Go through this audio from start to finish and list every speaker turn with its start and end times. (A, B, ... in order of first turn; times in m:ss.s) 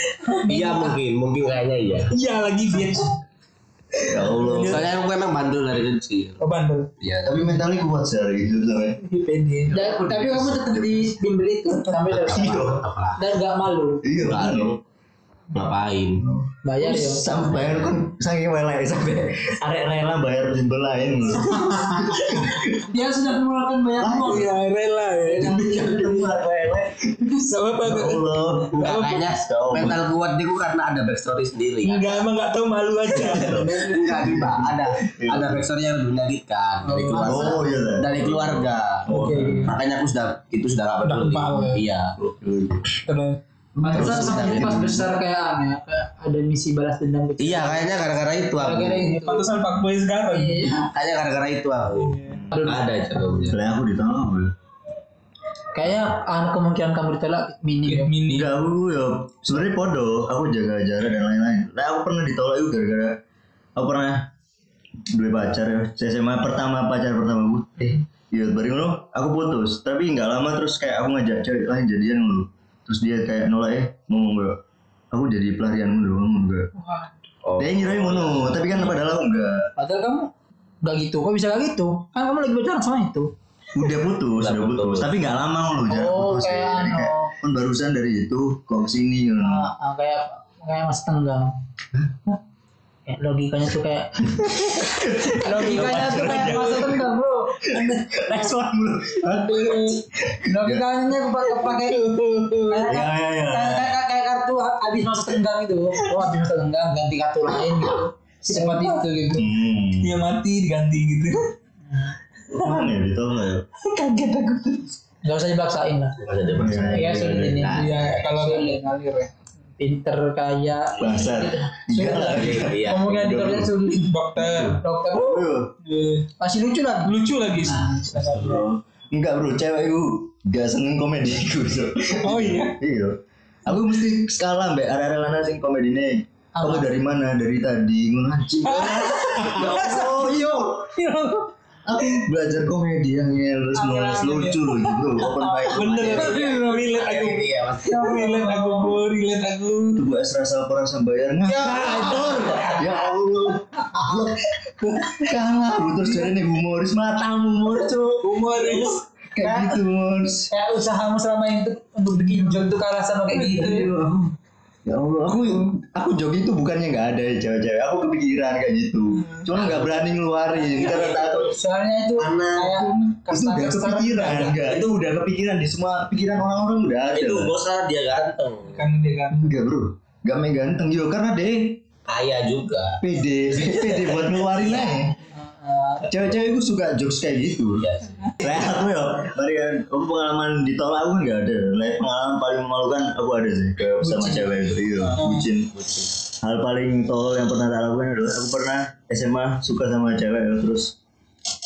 0:00.4-0:00.9 A
0:00.5-0:02.1 B
0:02.1-0:03.2 C
0:04.0-0:04.9 C
0:04.0-0:04.9 D
0:04.6-0:06.4 B
0:06.4-0:06.9 C
0:07.0-0:07.4 B
0:07.2-0:09.0 D
0:09.0-0:09.7 C
0:09.7-0:11.1 D
0:09.7-0:14.0 A
0:12.2-0:12.8 D
0:12.2-0:13.3 B
0:14.0-0:14.8 D
0:14.2-0:14.8 B
0:15.5-0:16.3 B
0:16.2-0:22.8 D
0:16.6-0:17.3 A
0:17.5-0:17.9 B
0:21.5-0:22.2 A
0:22.7-0:24.5 A
0:24.0-0:24.5 D
0:24.2-0:25.7 C
0:25.3-0:30.0 D
0:25.8-0:26.1 A
0:27.4-0:29.3 C
0:28.7-0:32.3 B
0:31.8-0:34.6 C
0:33.1-0:39.1 B
0:34.2-0:35.6 D
0:36.8-0:37.4 C
0:37.0-0:37.8 A
0:37.2-0:39.8 D
0:39.1-0:39.7 C
0:39.2-0:39.4 A
0:39.6-0:42.2 B
0:41.0-0:41.8 C
0:42.2-0:42.9 D
0:43.0-0:43.4 C
0:43.8-0:45.1 D
0:43.8-0:47.9 A
0:43.8-0:44.8 B
0:47.4-0:49.1 B
0:48.6-0:49.5 A
0:49.0-0:50.8 C
0:50.3-0:50.9 A
0:50.9-0:53.6 B
0:51.9-0:52.4 C
0:52.5-0:53.5 A
0:53.4-0:54.5 D
0:55.7-0:58.1 A
0:57.8-0:58.5 C
0:58.3-1:03.2 D
1:03.8-1:04.3 D
1:05.1-1:14.6 D
1:15.1-1:16.7 D
1:16.8-1:17.1 A
1:17.4-1:19.0 B
1:17.6-1:19.7 D
1:19.8-1:20.3 A
1:20.8-1:23.3 A
1:23.7-1:29.7 D
1:24.4-1:25.1 B
1:25.9-1:27.3 A
1:29.4-1:31.5 A
1:33.1-1:34.3 A
1:34.2-1:37.0 D
1:35.3-1:37.6 A
1:35.4-1:36.8 C
1:37.6-1:40.8 D
1:37.7-1:38.5 C
1:39.3-1:40.0 C
1:40.4-1:42.0 A
1:41.5-1:43.0 C
1:42.7-1:49.4 A
1:42.8-1:44.0 D
1:48.5-1:49.0 C
1:49.3-1:50.2 D
1:50.0-1:51.5 C
1:52.5-1:53.6 D
1:53.8-1:55.0 C
1:55.2-1:56.2 A
1:56.2-1:58.2 B
1:56.6-1:57.8 D
1:56.7-1:58.8 A
1:57.7-1:59.3 C
1:59.8-2:05.5 A
2:01.0-2:03.7 D
2:02.0-2:03.1 B
2:04.0-2:04.8 C
2:04.4-2:05.7 D
2:05.8-2:06.3 C
2:06.4-2:07.2 A
2:07.0-2:08.6 C
2:07.6-2:08.3 B
2:07.8-2:20.9 D
2:12.2-2:12.8 C
2:16.5-2:16.9 A
2:18.6-2:20.3 C
2:21.0-2:21.5 C
2:21.8-2:26.4 D
2:23.7-2:24.6 A
2:25.2-2:25.7 A
2:25.7-2:30.0 C
2:25.8-2:28.2 B
2:27.8-2:29.0 A
2:29.9-2:34.4 D
2:31.5-2:32.8 C
2:31.6-2:32.8 A
2:32.1-2:32.5 B
2:34.8-2:35.4 C
2:35.0-2:40.5 D
2:36.0-2:36.3 C
2:38.2-2:39.0 C
2:39.4-2:39.8 A
2:40.5-2:43.9 A
2:42.2-2:42.7 C
2:43.4-2:44.3 D
2:43.6-2:43.8 C
2:44.9-2:51.5 D
2:49.2-2:49.5 C
2:49.5-2:50.0 B
2:50.6-2:51.5 B
2:51.2-2:54.6 A
2:52.2-2:52.9 B
2:53.3-2:57.5 D
2:57.1-2:58.9 B
2:58.7-2:59.4 C
2:59.3-3:01.8 D
3:02.1-3:03.0 B
3:03.0-3:05.2 D
3:03.5-3:05.0 B
3:05.3-3:06.0 A
3:06.0-3:07.8 D
3:07.8-3:08.6 B
3:08.4-3:15.7 D
3:14.1-3:14.5 A
3:15.1-3:15.4 C
3:15.7-3:16.1 B
3:16.4-3:20.9 D